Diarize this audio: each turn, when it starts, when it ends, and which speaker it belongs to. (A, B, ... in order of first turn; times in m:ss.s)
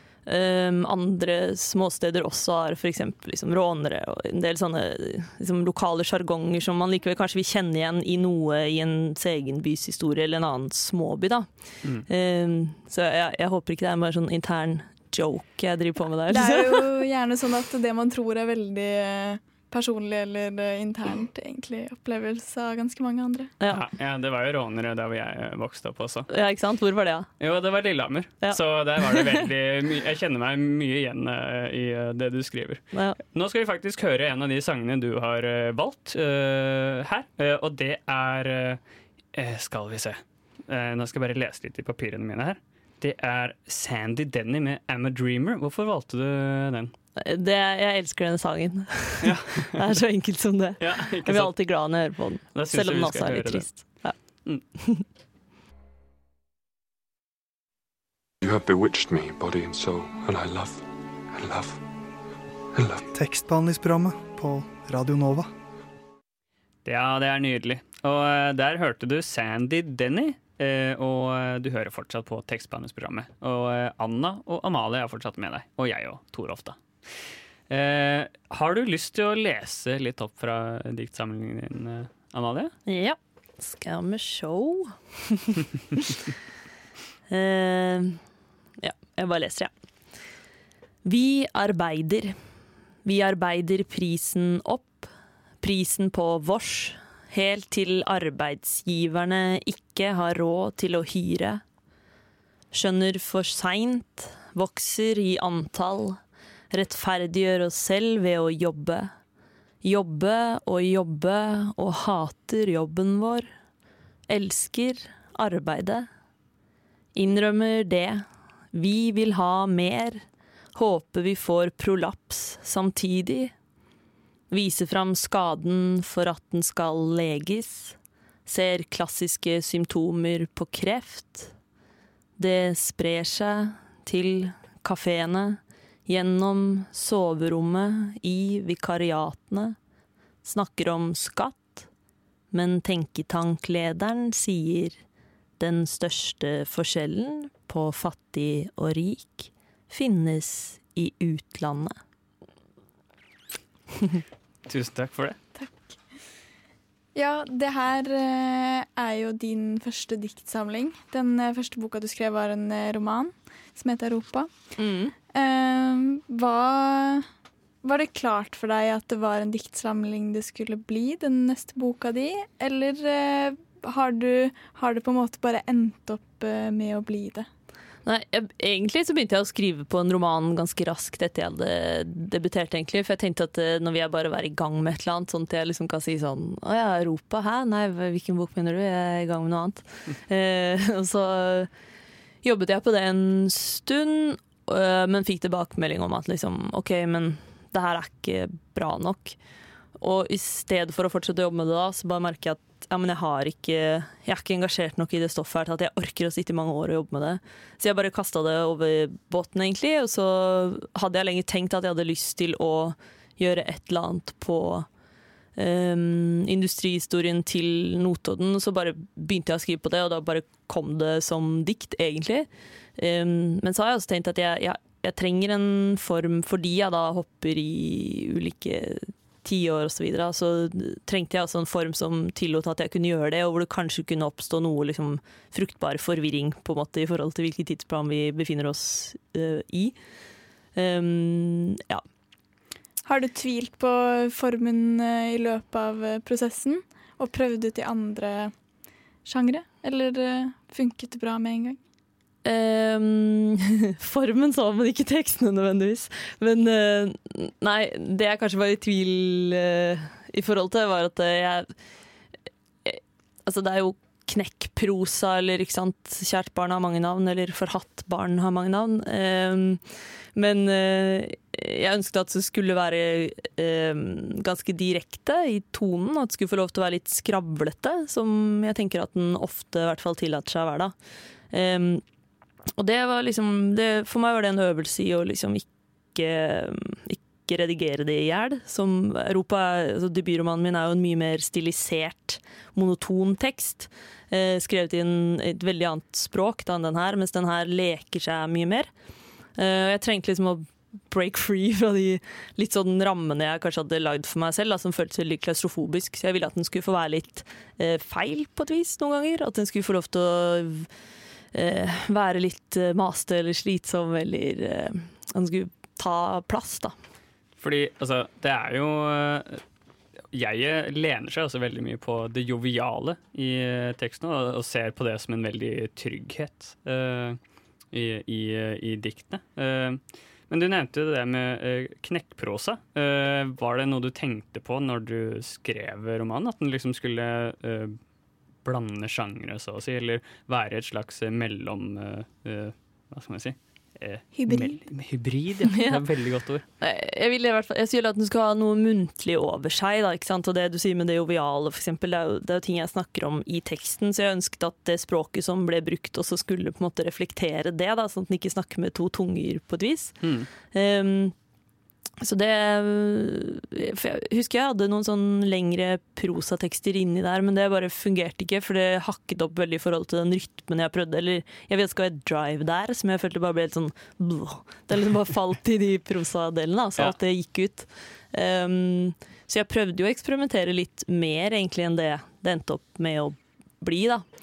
0:00.2-0:11.5 A
0:12.1-0:16.8 A
0:16.3-0:23.5 B
0:23.7-0:26.3 C
0:26.3-0:27.3 A
0:27.4-0:38.8 C
0:28.4-0:29.4 A
0:32.9-0:33.2 A
0:39.3-0:46.9 C
0:47.2-0:54.2 A
0:49.2-0:50.0 C
0:50.8-0:51.5 C
0:52.5-0:53.8 C
0:54.8-0:55.0 A
0:58.4-1:01.8 D
1:02.7-1:03.0 D
1:03.1-1:05.5 E
1:06.8-1:16.8 C
1:17.7-1:22.7 C
1:22.8-1:25.6 A
1:27.3-1:28.2 A
1:28.8-1:29.7 A
1:31.0-1:32.3 A
1:33.0-1:41.6 A
1:42.7-1:46.2 A
1:46.7-1:49.1 A
1:49.8-1:53.5 A
1:54.3-1:56.1 A
1:57.1-2:00.2 A
2:00.7-2:03.5 A
2:04.5-2:11.5 A
2:12.4-2:19.8 A
2:20.4-2:21.9 A
2:22.5-2:25.0 A
2:25.6-2:31.9 A
2:34.6-2:35.4 C
2:37.1-2:44.5 B
2:44.8-2:45.1 A
2:45.3-2:47.3 B
2:47.8-2:57.5 B
2:58.0-3:11.7 A
3:12.4-3:19.4 A
3:20.0-3:34.9 A
3:35.6-4:00.0 A
4:00.8-4:02.0 A
4:03.0-4:08.5 B
4:09.2-4:11.8 B
4:12.4-4:21.7 A
4:22.8-4:29.8 A
4:30.3-4:40.9 A
4:41.5-4:42.0 A
4:42.8-4:58.9 A
4:59.6-5:10.9 A
5:11.5-5:16.9 A
5:17.6-5:19.6 C
5:20.3-5:27.4 C
5:27.9-5:38.0 C
5:38.6-5:46.6 C
5:44.3-5:44.8 B
5:45.7-5:46.0 A
5:46.8-6:00.2 A
6:00.2-6:00.5 C
6:00.7-6:01.3 A
6:02.2-6:24.2 A